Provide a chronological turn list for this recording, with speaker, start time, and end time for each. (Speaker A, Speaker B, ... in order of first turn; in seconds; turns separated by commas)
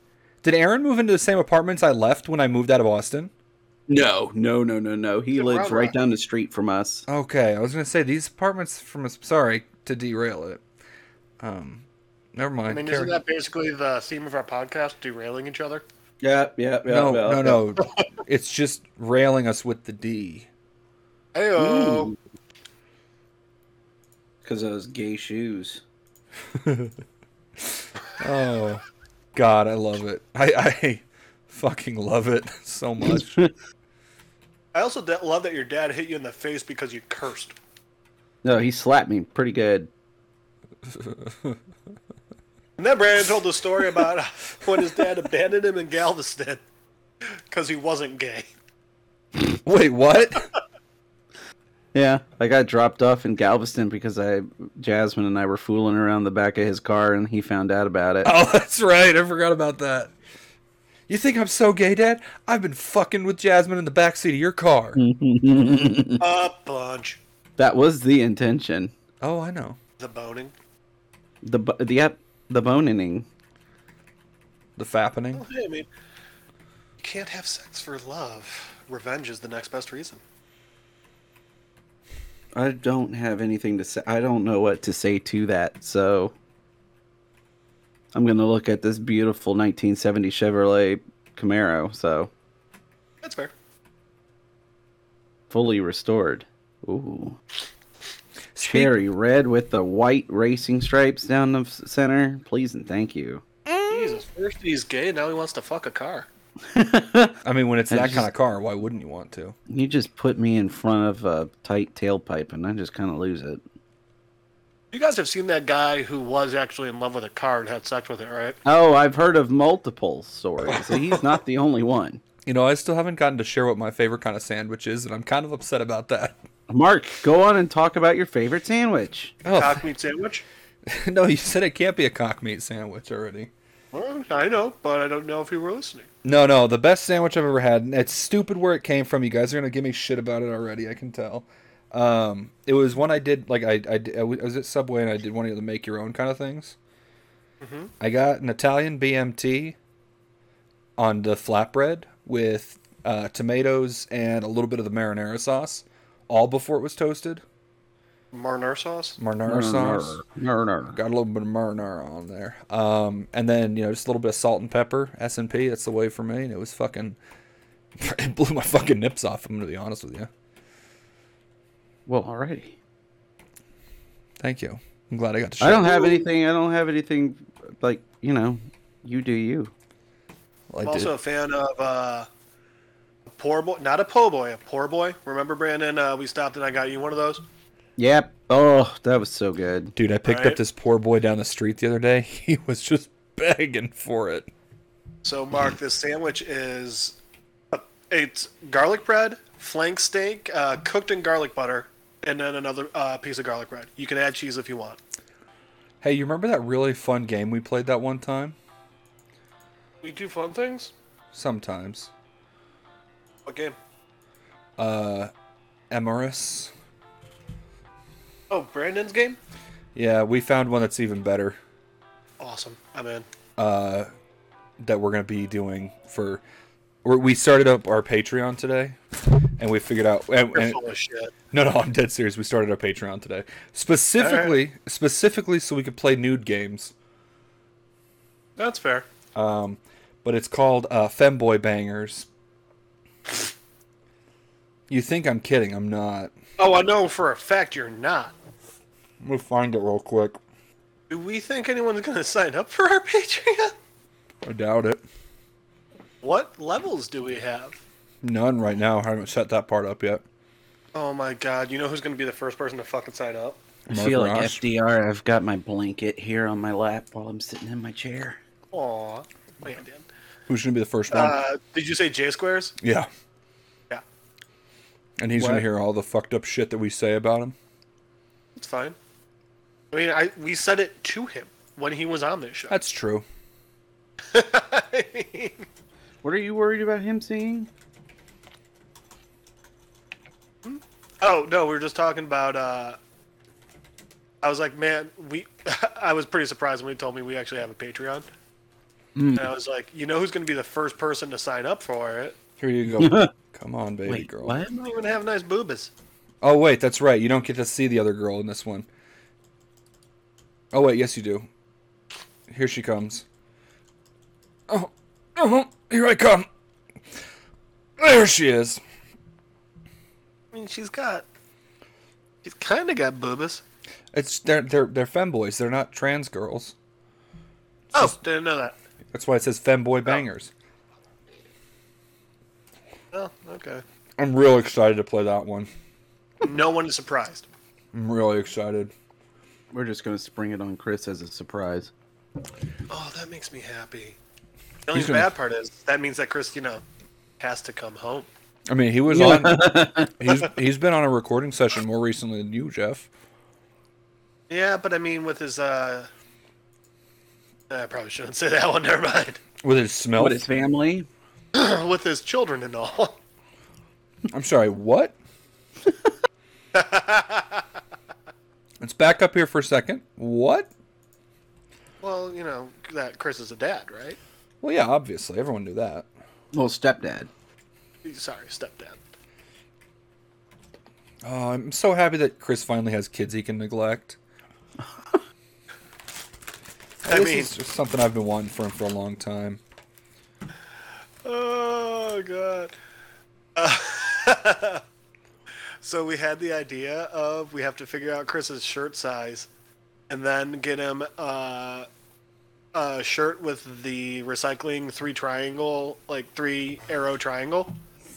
Speaker A: 0.4-3.3, Speaker B: 3.9-7.1, Speaker C: 5.3-6.0, Speaker A: 7.1-10.6, Speaker A: 11.4-13.2, Speaker C: 12.7-15.8, Speaker B: 16.2-17.6, Speaker A: 16.9-20.5, Speaker C: 21.4-22.1, Speaker B: 21.6-22.2, Speaker B: 24.4-25.8, Speaker A: 26.5-26.9, Speaker A: 27.6-28.8, Speaker A: 29.4-33.4, Speaker B: 33.1-33.5, Speaker C: 34.7-37.6, Speaker B: 38.4-39.9, Speaker A: 40.9-41.6, Speaker C: 42.8-46.6, Speaker C: 47.5-48.5, Speaker A: 49.4-50.5, Speaker B: 51.9-58.3, Speaker A: 58.2-60.1, Speaker A: 61.1-65.0, Speaker B: 65.0-66.2, Speaker C: 66.2-67.2, Speaker B: 67.6-68.9, Speaker A: 69.2-69.8, Speaker C: 70.0-70.5, Speaker B: 71.4-73.3, Speaker A: 74.8-75.5, Speaker C: 75.3-75.9, Speaker C: 77.0-80.2, Speaker B: 82.5-86.3, Speaker B: 88.1-92.3, Speaker C: 93.2-93.5, Speaker B: 95.5-97.4, Speaker A: 98.5-99.0, Speaker B: 98.6-103.5, Speaker C: 103.9-106.3, Speaker B: 106.7-107.4, Speaker A: 107.5-109.6, Speaker B: 107.9-108.3, Speaker B: 109.7-113.6, Speaker C: 114.9-118.6, Speaker B: 118.7-122.2, Speaker A: 122.5-126.4, Speaker B: 126.7-129.4, Speaker A: 129.4-129.8, Speaker C: 129.6-130.4, Speaker A: 130.9-133.5, Speaker C: 133.9-136.1, Speaker A: 136.2-146.8, Speaker C: 147.6-147.9, Speaker A: 148.0-149.8, Speaker A: 151.0-157.4, Speaker C: 158.3-159.2, Speaker A: 159.2-160.2, Speaker B: 159.5-161.0, Speaker A: 160.9-167.2, Speaker A: 168.0-170.3, Speaker B: 172.1-172.8, Speaker A: 174.4-176.3, Speaker B: 175.6-179.7, Speaker A: 180.7-181.1, Speaker C: 180.8-182.3, Speaker C: 183.3-187.4, Speaker B: 188.0-189.9, Speaker A: 190.0-194.5, Speaker C: 190.3-190.6, Speaker C: 195.2-197.2, Speaker C: 197.7-205.0, Speaker A: 206.0-208.6, Speaker C: 210.0-210.9, Speaker A: 211.3-212.1, Speaker C: 213.5-213.8, Speaker A: 214.8-215.3, Speaker A: 215.9-216.7, Speaker C: 218.5-219.4, Speaker A: 219.9-221.6, Speaker C: 222.4-223.3, Speaker A: 223.6-224.1, Speaker A: 224.8-226.4, Speaker A: 227.0-229.0, Speaker A: 229.6-230.8, Speaker C: 230.5-231.3, Speaker A: 231.5-236.9, Speaker C: 234.2-234.6, Speaker C: 238.6-239.1, Speaker A: 239.3-242.3, Speaker A: 244.9-246.3, Speaker C: 246.6-248.3, Speaker A: 249.2-250.4, Speaker C: 251.1-253.7, Speaker A: 254.4-255.0, Speaker C: 256.2-257.8, Speaker A: 258.2-260.2, Speaker C: 260.9-263.6, Speaker A: 263.9-264.6, Speaker B: 263.9-268.4, Speaker C: 268.7-270.1, Speaker A: 270.5-271.4, Speaker C: 271.1-272.7, Speaker A: 272.8-273.1, Speaker A: 275.2-277.6, Speaker B: 275.4-275.6, Speaker C: 278.6-279.0, Speaker C: 279.9-282.8, Speaker A: 282.7-283.2, Speaker C: 284.3-285.7, Speaker B: 286.2-287.7, Speaker C: 290.6-293.0, Speaker C: 294.4-298.3, Speaker B: 299.2-299.5, Speaker C: 299.4-302.4, Speaker A: 302.6-304.6, Speaker B: 303.0-303.3, Speaker B: 304.1-304.7, Speaker C: 304.7-305.9, Speaker A: 306.4-308.9, Speaker A: 310.7-311.5, Speaker A: 312.5-313.2, Speaker A: 314.7-316.5, Speaker A: 318.0-318.8, Speaker C: 320.5-321.2, Speaker C: 322.4-323.6, Speaker A: 324.1-326.8, Speaker C: 327.9-328.8, Speaker A: 329.1-330.5, Speaker C: 333.1-333.8, Speaker A: 334.2-335.7, Speaker C: 336.4-337.5, Speaker A: 337.9-338.9, Speaker B: 339.7-341.9, Speaker C: 342.9-344.2, Speaker C: 344.9-346.8, Speaker A: 344.9-345.3, Speaker C: 347.4-348.3, Speaker A: 348.7-353.1, Speaker B: 349.1-350.2, Speaker C: 354.5-356.1, Speaker C: 357.7-359.4, Speaker A: 359.6-360.4, Speaker B: 360.2-361.1, Speaker C: 361.5-363.2, Speaker A: 364.3-365.1, Speaker C: 366.7-367.6, Speaker A: 368.8-370.7, Speaker C: 372.0-374.2, Speaker A: 374.6-376.1, Speaker B: 376.5-377.3, Speaker C: 378.0-379.0, Speaker A: 381.2-384.2, Speaker A: 387.0-389.6, Speaker C: 387.1-387.5, Speaker C: 391.2-392.8, Speaker C: 393.6-394.8, Speaker C: 395.8-399.5, Speaker C: 400.1-401.9, Speaker C: 402.7-407.8